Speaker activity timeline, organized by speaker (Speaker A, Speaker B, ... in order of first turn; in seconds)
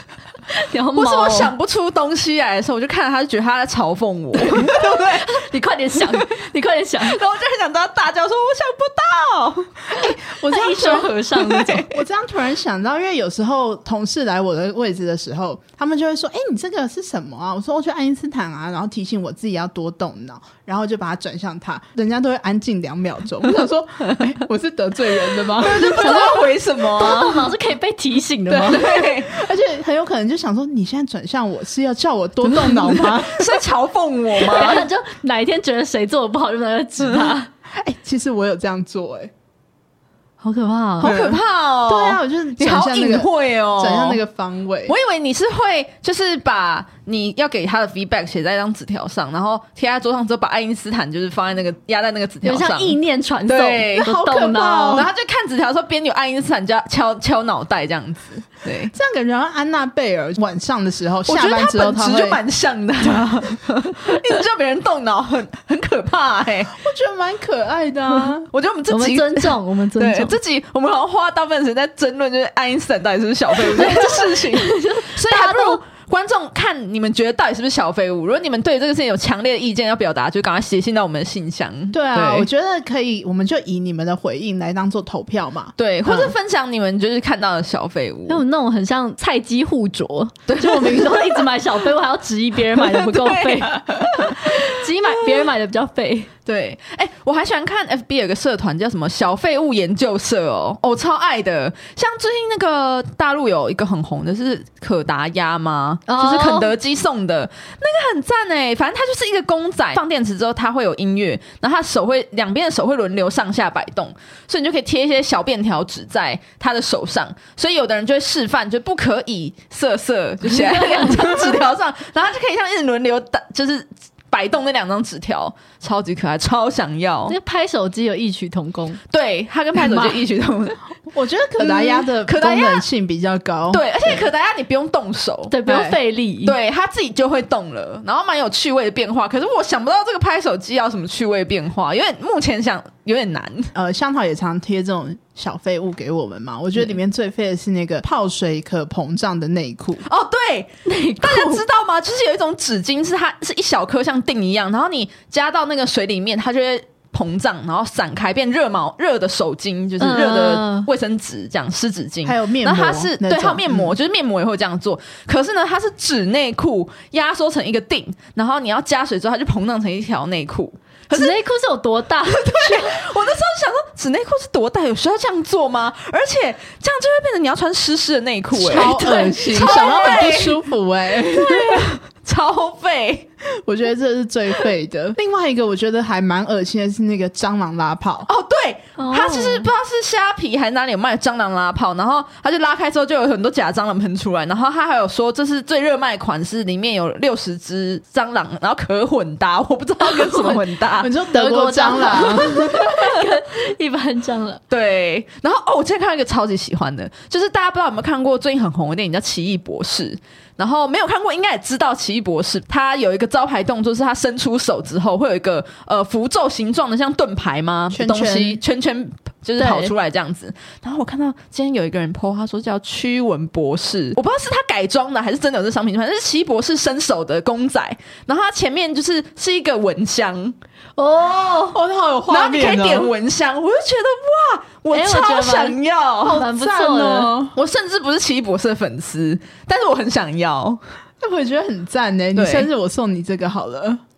Speaker A: 0.6-1.5, 4.5-7.2, 10.4-11.9, 25.8-28.9, 32.5-33.0, 34.4-37.5, 40.4-41.1, 52.4-55.1, 68.9-70.3, 73.6-75.8, 88.3-96.3, 106.1-106.7, 120.5-121.4, 127.3-129.0, 129.8-130.2, 135.5-136.6, 150.8-151.6, 160.0-160.9, 171.1-173.0, 178.7-179.9, 189.0-189.7, 200.0-200.6, 201.3-204.6, 219.6-219.9, 231.0-231.8, 234.9-237.3
Speaker B: 0.9-5.3, 6.0-6.2, 7.0-9.9, 10.7-11.9, 25.6-27.5, 28.6-29.3, 33.0-34.9, 41.0-44.2, 44.9-58.9, 61.3-66.8, 68.5-82.5, 85.8-88.4, 90.5-91.4, 92.8-94.6, 96.5-127.4, 129.1-130.8, 131.6-132.9, 133.7-143.7, 150.1-171.4, 172.3-180.6, 181.2-183.3, 188.3-201.1, 204.7-230.6, 232.3-236.5, 237.6-240.8, 242.4-242.7
Speaker C: 10.0-11.1, 11.8-26.3, 28.5-33.6, 37.7-39.3, 41.0-44.9, 54.0-55.1, 58.9-62.4, 66.8-68.5, 81.9-86.3, 131.1-134.3, 143.8-150.1, 162.2-163.9, 178.5-181.9, 183.7-188.3, 201.0-202.8, 217.9-218.6, 231.7-233.1, 236.4-237.6, 241.2-244.0